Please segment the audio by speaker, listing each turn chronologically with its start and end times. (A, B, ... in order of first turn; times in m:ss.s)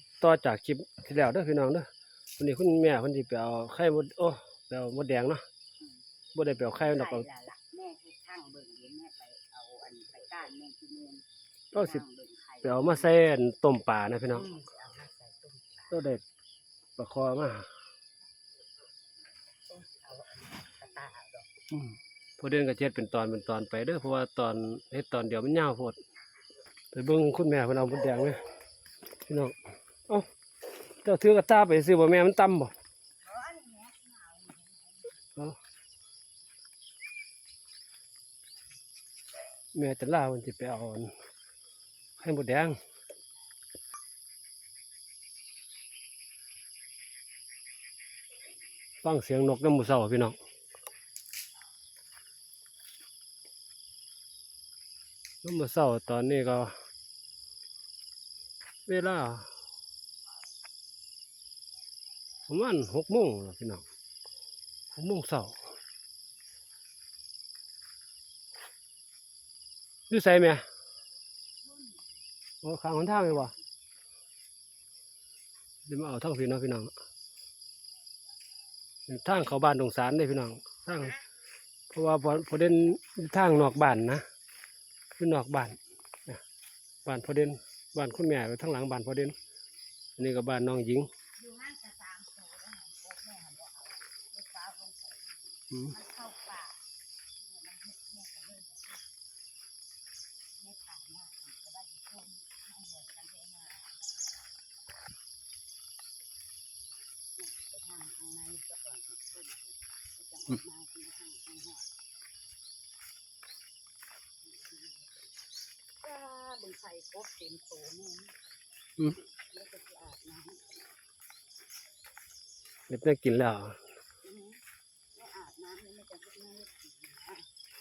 0:00.2-0:01.9 A
0:02.4-0:05.4 A
0:05.8-0:11.2 B
0:06.4-0:07.2 A
0:11.7-0:12.0 A
0:11.7-0:13.1 B
0:12.6-0:14.5 A
0:14.3-0:16.0 B
0:15.9-0:16.2 A
0:17.0-0:17.7 A
0:19.7-0:21.5 B
0:21.7-0:26.0 A
0:26.9-0:28.4 A
0:29.3-0:29.5 A
0:31.0-0:32.7 A
0:33.2-0:35.2 B
0:39.7-0:41.1 A
0:42.2-0:42.8 A
0:49.0-0:50.4 A
0:55.4-0:56.8 A
0:58.9-0:59.5 A
1:02.5-1:03.8 A
1:05.0-1:05.6 A
1:10.1-1:10.6 A
1:11.6-1:12.1 B
1:12.6-1:13.5 A
1:13.1-1:13.6 B
1:15.9-1:16.9 A
1:19.1-1:21.2 A
1:21.9-1:24.2 A
1:25.2-1:26.4 A
1:27.0-1:29.3 A
1:30.2-1:31.1 A
1:31.4-1:36.8 B
1:37.4-1:39.0 B
1:40.6-1:44.0 B
1:47.3-1:51.9 B
1:54.4-1:55.3 B
1:56.0-1:58.3 B
1:59.5-2:00.6 B
2:02.9-2:03.8 A
2:04.2-2:04.6 B
2:05.1-2:07.5 B